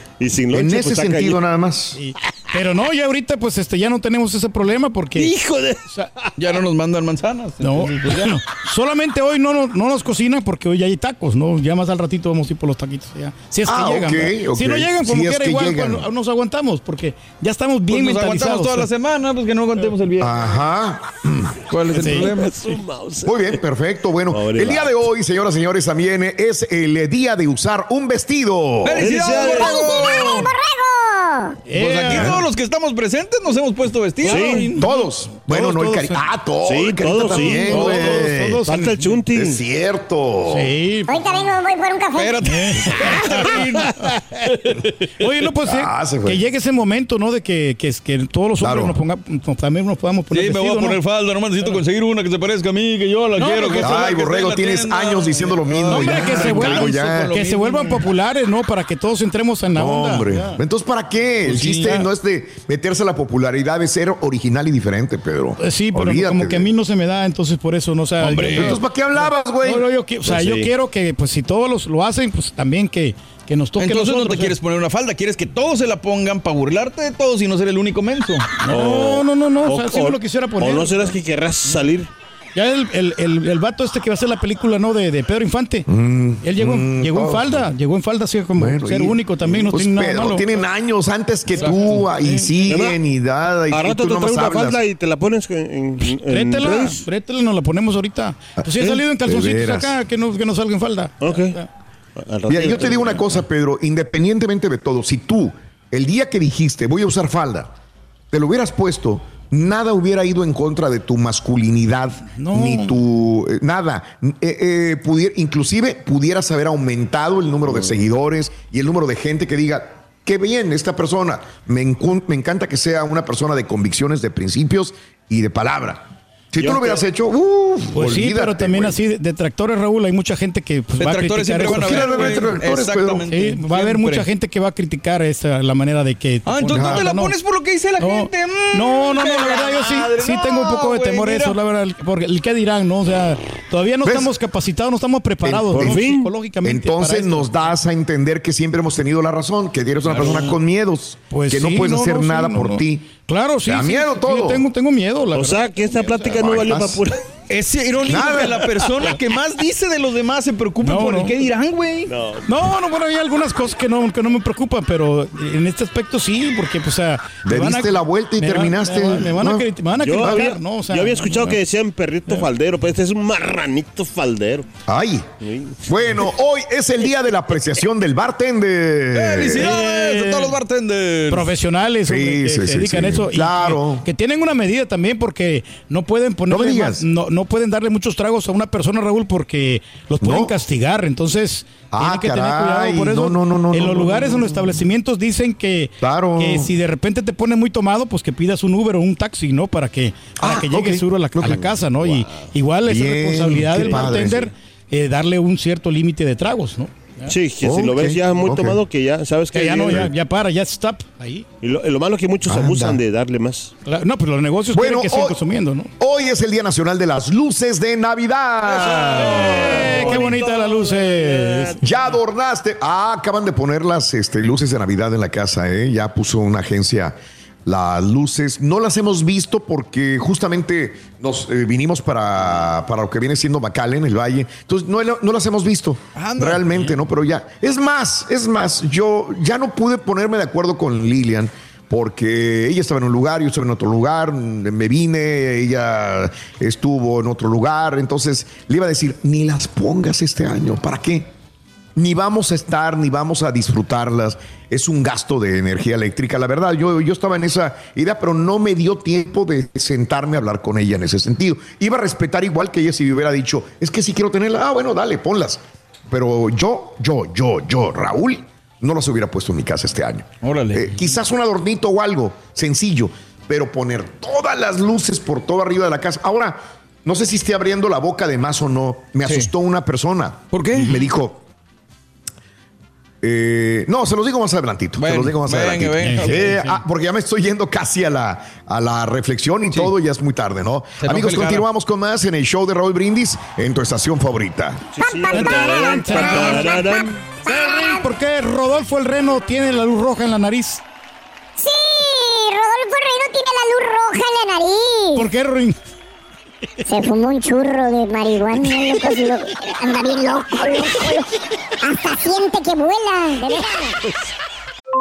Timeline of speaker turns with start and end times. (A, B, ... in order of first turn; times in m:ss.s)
0:00.2-0:01.4 A
0:00.5-0:02.0 B
0:02.0-0:05.3 C
0:05.2-0:05.8 A
0:06.4-0:08.1 D
0:07.6-0:18.9 C
0:13.7-0:16.1 B
0:17.9-0:20.4 D
0:20.2-0:21.6 B
0:21.7-0:22.6 D
0:22.0-0:23.6 A
0:22.0-0:22.8 C
0:23.2-0:29.6 B
0:24.3-0:25.0 A
0:28.8-0:30.5 D
0:29.0-0:30.3 A
0:29.5-0:31.6 E
0:31.7-0:32.4 C
0:31.8-0:34.8 D
0:32.1-0:32.4 B
0:34.2-0:34.7 A
0:34.3-0:36.2 C
0:34.8-0:38.6 B
0:36.6-0:39.6 A
0:37.3-0:39.2 C
0:39.3-0:40.7 B
0:40.5-0:41.1 C
0:41.1-0:42.4 E
0:42.2-0:44.5 D
0:42.4-0:44.1 C
0:45.2-0:51.0 C
0:45.6-0:46.4 B
0:48.6-0:49.0 B
0:50.3-0:58.0 D
0:53.4-0:54.0 C
0:53.8-0:57.3 B
0:55.9-1:00.6 C
0:59.8-1:06.7 B
1:01.4-1:02.1 C
1:05.6-1:14.6 C
1:08.2-1:08.8 D
1:08.5-1:09.9 B
1:10.3-1:10.7 A
1:13.8-1:18.5 D
1:18.6-1:21.2 C
1:18.7-1:22.1 A
1:22.6-1:25.9 C
1:25.9-1:27.7 B
1:26.4-1:30.4 C
1:28.6-1:34.8 B
1:31.5-1:32.7 C
1:32.7-1:33.0 A
1:33.7-1:37.0 A
1:36.1-1:41.7 C
1:39.2-1:40.0 B
1:41.2-1:41.6 A
1:42.2-1:43.4 A
1:42.5-1:47.7 B
1:48.3-2:09.0 B
1:52.4-1:53.0 C
2:06.6-2:07.0 A
2:07.9-2:12.5 C
2:11.0-2:14.3 D
2:11.6-2:13.2 B
2:13.3-2:17.3 C
2:16.5-2:21.6 D
2:16.7-2:17.0 B
2:18.0-2:27.6 C
2:24.0-2:24.3 B
2:25.4-2:26.1 B
2:25.8-2:26.3 A
2:26.6-2:33.1 B
2:30.2-2:30.5 C
2:31.3-2:36.5 C
2:33.7-2:34.6 B
2:35.3-2:37.2 A
2:36.3-2:37.0 B
2:37.5-2:42.1 D
2:38.1-2:38.5 B
2:38.1-2:38.6 C
2:40.8-2:41.4 C
2:42.1-2:42.5 A
2:42.5-2:51.6 C
2:47.4-2:50.5 B
2:50.0-2:54.7 A
2:54.9-2:55.3 B
2:55.4-2:55.8 A
2:55.8-2:59.8 B
2:59.1-3:01.5 D
2:59.6-3:00.5 C
3:01.3-3:27.3 C
3:02.1-3:04.0 B
3:06.5-3:07.1 B
3:10.2-3:10.5 B
3:11.9-3:14.8 B
3:16.0-3:16.7 B
3:20.4-3:21.7 B
3:22.9-3:24.5 B
3:27.3-3:30.1 A
3:27.6-3:28.8 B
3:29.5-3:31.5 C
3:31.6-3:33.7 A
3:32.5-3:33.0 B
3:33.8-3:35.9 C
3:34.7-3:35.4 B
3:36.0-3:39.9 B
3:38.7-3:42.0 A
3:39.4-3:41.8 C
3:41.8-4:11.3 B
3:56.2-3:56.7 D
4:12.0-4:41.4 B
4:30.4-4:30.9 D
4:39.2-4:39.5 D
4:40.5-4:40.9 D
4:43.2-4:54.8 B
4:45.0-4:46.8 D
4:46.0-4:46.5 C
4:51.0-4:51.6 D
4:55.0-4:57.2 A
4:55.0-4:58.1 E
4:55.3-5:00.8 C
5:01.6-5:05.3 E
5:05.2-5:05.8 C
5:06.8-5:14.0 E